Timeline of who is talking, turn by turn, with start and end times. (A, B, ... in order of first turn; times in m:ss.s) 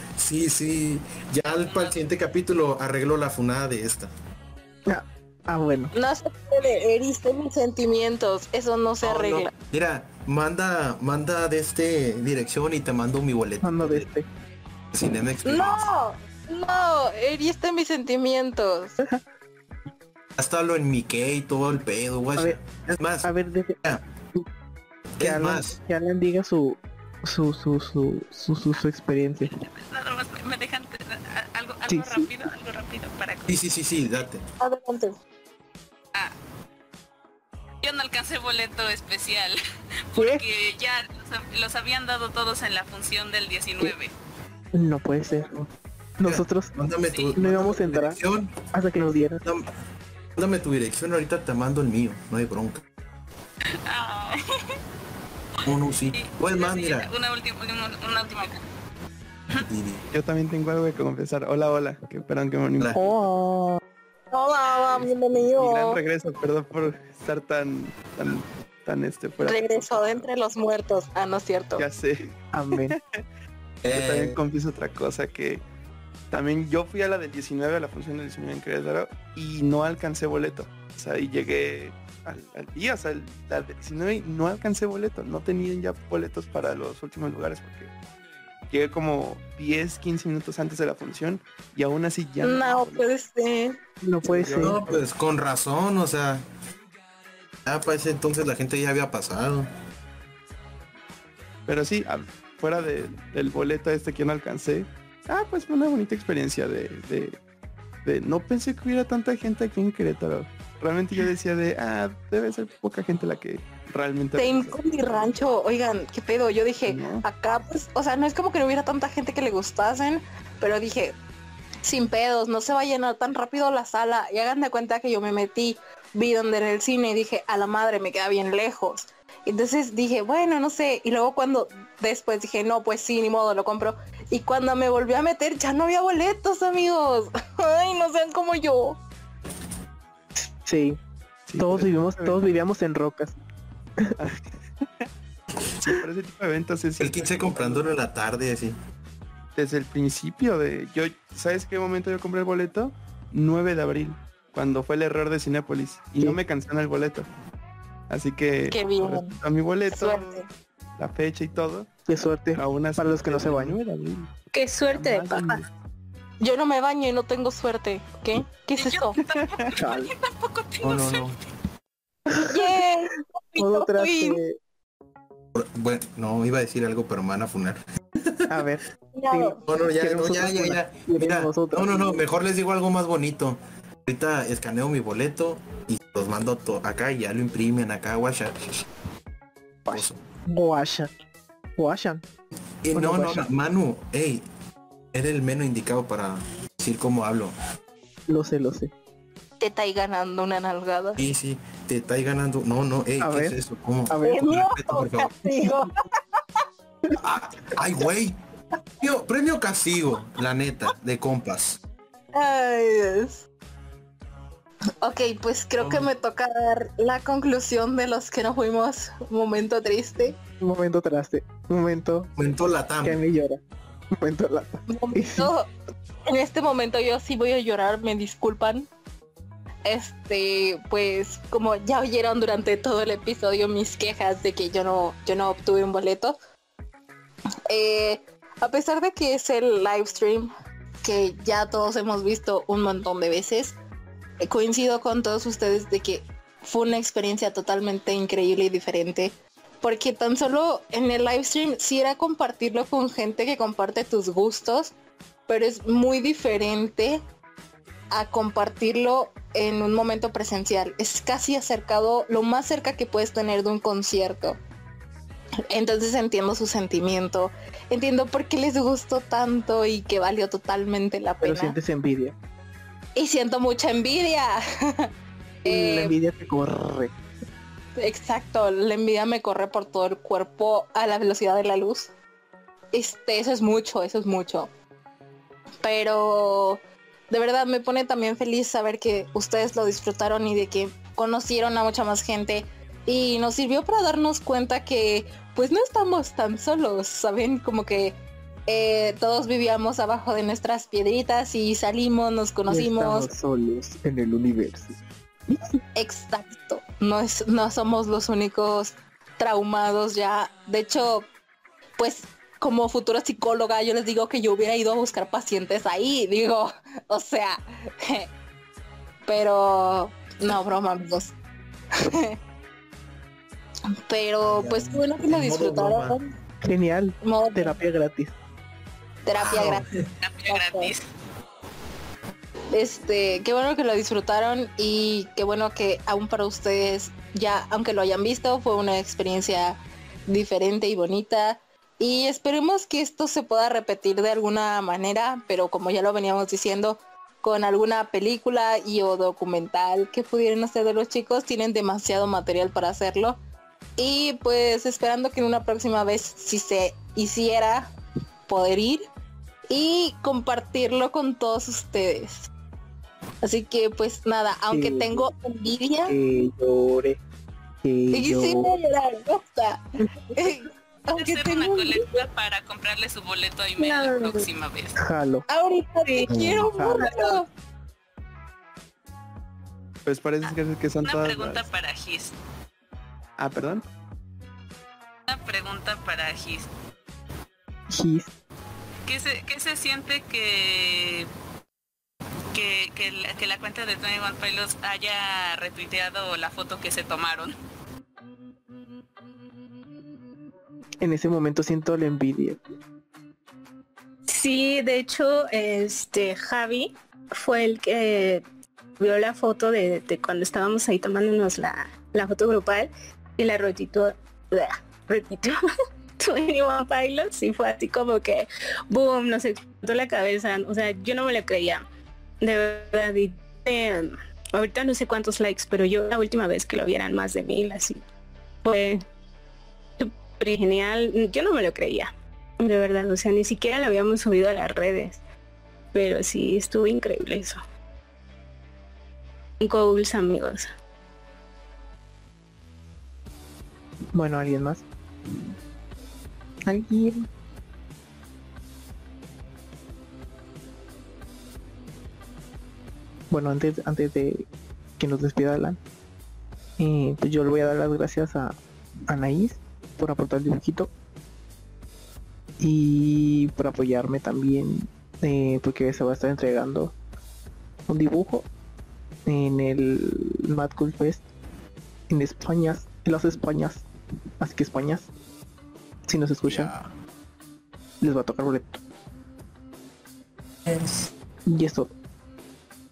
0:00.2-0:04.1 A
0:01.6-0:02.0 B
0:04.9-0:05.9 C
0:05.9-0:09.5 D
0:09.0-0:14.1 A
0:13.6-0:14.3 C
0:14.9-0:15.9 A
0:15.4-0:19.0 D
0:20.4-0:23.3 A
0:22.4-0:22.6 C
0:23.2-0:23.8 C
0:25.2-0:25.8 A
0:25.2-0:29.5 C
0:29.6-0:33.5 B
0:31.9-0:32.3 C
0:33.5-0:34.4 A
0:34.6-0:35.2 D
0:37.8-0:39.6 B
0:40.1-0:44.1 B
0:40.2-0:40.4 C
0:44.7-0:46.8 C
0:46.2-0:48.6 A
0:47.4-0:48.2 C
0:48.7-0:49.4 C
0:50.4-0:52.8 A
0:53.9-0:54.8 B
0:55.7-0:57.1 A
0:56.1-0:58.6 B
0:59.6-1:00.0 A
1:00.1-1:03.1 E
1:02.9-1:03.8 C
1:04.3-1:06.0 D
1:04.8-1:10.3 E
1:09.4-1:11.9 D
1:11.8-1:13.2 E
1:12.5-1:13.0 C
1:13.8-1:14.3 A
1:13.9-1:15.6 E
1:16.3-1:27.9 E
1:28.7-1:33.1 E
1:32.4-1:33.8 D
1:34.0-1:34.8 C
1:34.2-1:35.0 E
1:34.6-1:36.4 A
1:37.7-1:39.7 A
1:41.7-1:47.4 E
1:48.0-1:54.8 E
1:54.4-2:01.2 D
1:56.9-1:57.2 E
2:01.8-2:19.0 D
2:20.6-2:21.0 C
2:21.5-2:22.4 E
2:21.6-2:23.4 C
2:24.2-2:25.1 E
2:25.8-2:28.0 E
2:27.0-2:28.8 A
2:29.6-2:37.3 E
2:38.1-2:40.4 E
2:38.7-2:39.4 D
2:39.9-2:40.5 D
2:41.0-2:41.9 E
2:42.1-2:43.8 C
2:42.6-2:44.3 E
2:44.5-2:45.6 F
2:44.9-2:45.7 E
2:46.4-2:49.2 D
2:48.8-2:51.3 B
2:49.3-2:49.7 E
2:49.8-2:50.1 C
2:50.8-2:51.4 A
2:52.4-2:52.7 C
2:52.5-2:54.4 D
2:53.6-2:54.6 C
2:55.6-2:57.8 A
2:58.5-3:02.2 C
2:59.1-2:59.6 D
2:59.7-3:08.5 A
3:09.9-3:11.1 C
3:09.9-3:10.2 A
3:11.8-3:12.2 C
3:12.8-3:14.4 A
3:12.9-3:13.5 C
3:15.1-3:17.5 A
3:18.3-3:18.9 C
3:19.6-3:21.2 D
3:21.2-3:25.3 A
3:23.2-3:23.6 C
3:24.1-3:24.5 C
3:24.2-3:25.9 D
3:27.2-3:28.4 A
3:29.0-3:31.8 A
3:32.3-3:33.4 D
3:35.0-3:40.4 D
3:35.8-3:36.1 A
3:40.6-3:42.3 C
3:42.4-3:43.2 A
3:43.0-3:43.6 C
3:44.2-3:45.5 C
3:44.9-3:45.7 D
3:46.3-3:48.9 D
3:49.9-3:56.4 D
3:57.7-4:00.5 D
4:01.0-4:03.8 D
4:04.4-4:14.9 D
4:15.5-4:17.2 D
4:18.1-4:24.6 D
4:25.7-4:31.8 D
4:31.4-4:32.4 C
4:33.2-4:34.6 D
4:35.6-4:36.2 D
4:35.7-4:37.1 C
4:38.0-4:42.1 D
4:42.9-4:44.7 D
4:45.8-4:46.8 D
4:47.3-5:03.3 D
5:02.7-5:05.0 C
5:06.0-5:11.3 D
5:12.0-5:18.3 D
5:19.3-5:21.4 D
5:24.1-5:26.3 D
5:24.4-5:26.2 A
5:26.7-5:28.3 C
5:27.2-5:27.8 D
5:29.2-5:29.8 D
5:29.4-5:29.8 A
5:30.2-5:31.0 B
5:30.5-5:30.9 D
5:32.7-5:53.4 D
5:54.0-5:57.9 D
5:58.5-5:59.0 D
5:59.7-6:02.5 D
6:03.4-6:06.2 D
6:04.7-6:05.3 C
6:06.1-6:07.2 C
6:07.8-6:08.7 C
6:08.1-6:09.8 D
6:10.4-6:12.0 D
6:11.2-6:15.0 B
6:13.8-6:14.5 F
6:15.0-6:15.5 C
6:15.5-6:17.4 D
6:16.3-6:16.7 A
6:16.6-6:17.1 C
6:20.0-6:21.7 E
6:21.0-6:22.3 B
6:23.4-6:23.9 E
6:25.3-6:26.7 B
6:27.9-6:28.3 C
6:29.0-6:31.3 B
6:32.5-6:37.5 B
6:41.0-6:42.6 C
6:44.3-6:48.4 F
6:49.0-6:55.6 F
6:56.2-7:01.8 F
7:02.4-7:08.0 F
7:08.6-7:09.0 F
7:10.0-7:15.2 F
7:15.9-7:17.6 F
7:19.6-7:20.7 F
7:24.1-7:24.9 C
7:26.7-7:27.3 C
7:33.3-7:34.5 C
7:35.0-7:35.8 C
7:36.8-7:38.6 C
7:39.1-7:40.9 C
7:42.6-7:47.0 C
7:47.9-7:48.5 C
7:49.3-7:51.2 C
7:52.1-7:53.9 C
7:54.4-7:55.1 C
7:56.1-7:56.7 C
7:56.5-7:56.9 A
7:58.0-7:58.8 C
8:01.5-8:01.9 C